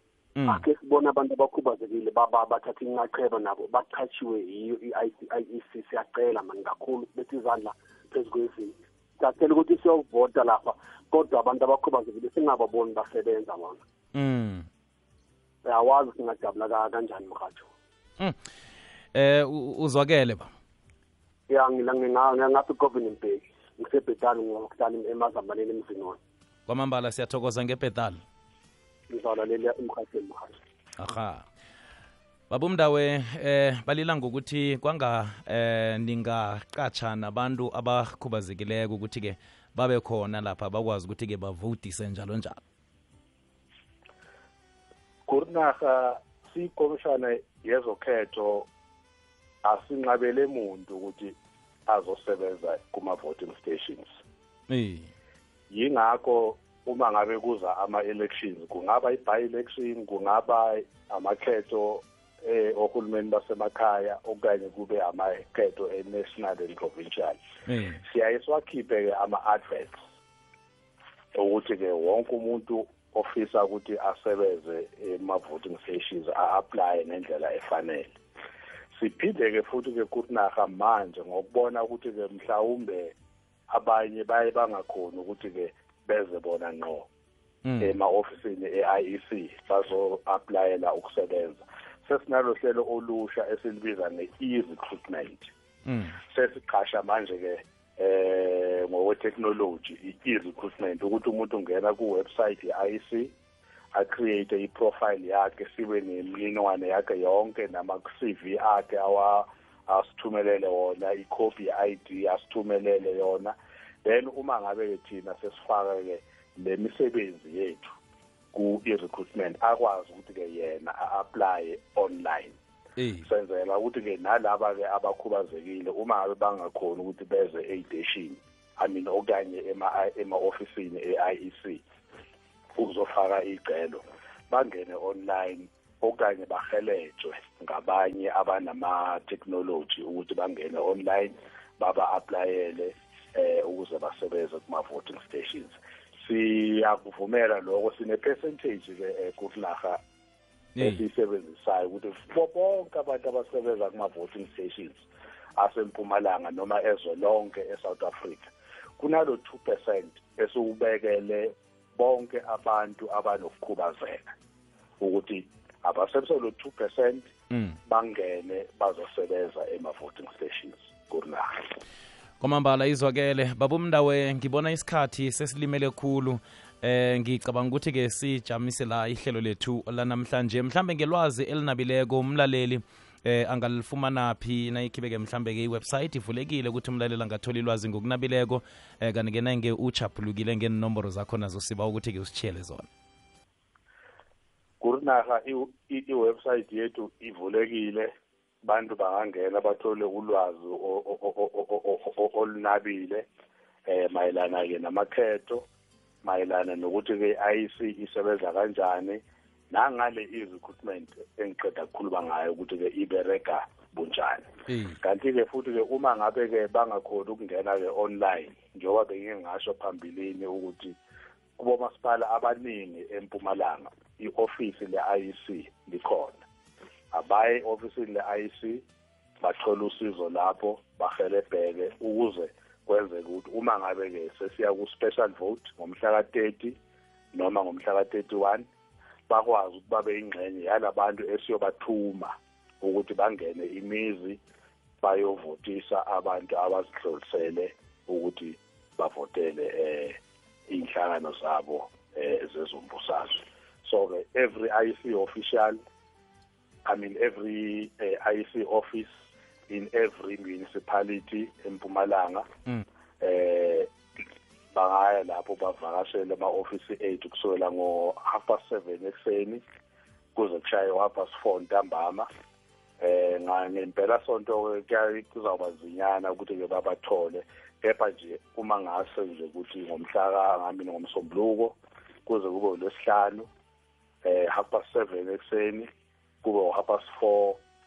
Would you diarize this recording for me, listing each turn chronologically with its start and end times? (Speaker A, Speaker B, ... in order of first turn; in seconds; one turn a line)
Speaker A: 0.3-0.6
Speaker B: 0.5-13.8
Speaker A: 14.1-14.7
Speaker B: 15.6-17.7
Speaker A: 19.1-20.5
Speaker B: 21.5-26.2
Speaker A: 26.7-28.2
Speaker B: 29.1-30.6
Speaker A: 31.0-31.4
Speaker A: 32.5-42.6
Speaker C: 45.3-48.7
Speaker C: 49.6-51.3
Speaker C: 51.9-54.1
Speaker A: 54.7-55.1
Speaker C: 55.7-67.4
Speaker A: 67.7-68.0
Speaker C: 68.0-70.0
Speaker C: 71.3-78.1
Speaker C: 78.9-83.1
Speaker C: 83.7-87.1
Speaker A: 87.6-88.0
Speaker C: 87.8-95.5
Speaker A: 95.8-96.2
Speaker C: 96.2-103.3
Speaker C: 103.9-113.5
Speaker C: 114.0-117.9
Speaker C: 118.5-122.6
Speaker A: 123.0-123.3
Speaker C: 123.2-131.8
Speaker C: 132.8-150.0
Speaker A: 150.8-151.0
Speaker C: 150.8-155.1
Speaker C: 155.6-158.5
Speaker C: 159.0-164.3
Speaker C: 165.0-167.3
Speaker A: 167.5-167.8
Speaker C: 167.8-171.6
Speaker A: 172.4-192.9
Speaker C: 194.8-198.1
Speaker C: 198.6-203.2
Speaker C: 203.9-205.6
Speaker C: 206.2-209.2
Speaker C: 209.7-214.5
Speaker A: 214.7-215.0
Speaker C: 215.0-221.0
Speaker C: 221.6-226.4
Speaker C: 227.1-228.8
Speaker C: 229.4-236.8
Speaker C: 237.3-238.7
Speaker C: 239.3-244.4
Speaker C: 245.0-250.2
Speaker C: 250.7-255.8
Speaker C: 256.9-259.1
Speaker C: 259.7-262.4
Speaker C: 263.2-263.9
Speaker C: 264.7-269.6
Speaker C: 270.4-272.3
Speaker C: 273.0-283.5
Speaker C: 284.2-285.9
Speaker C: 286.4-287.6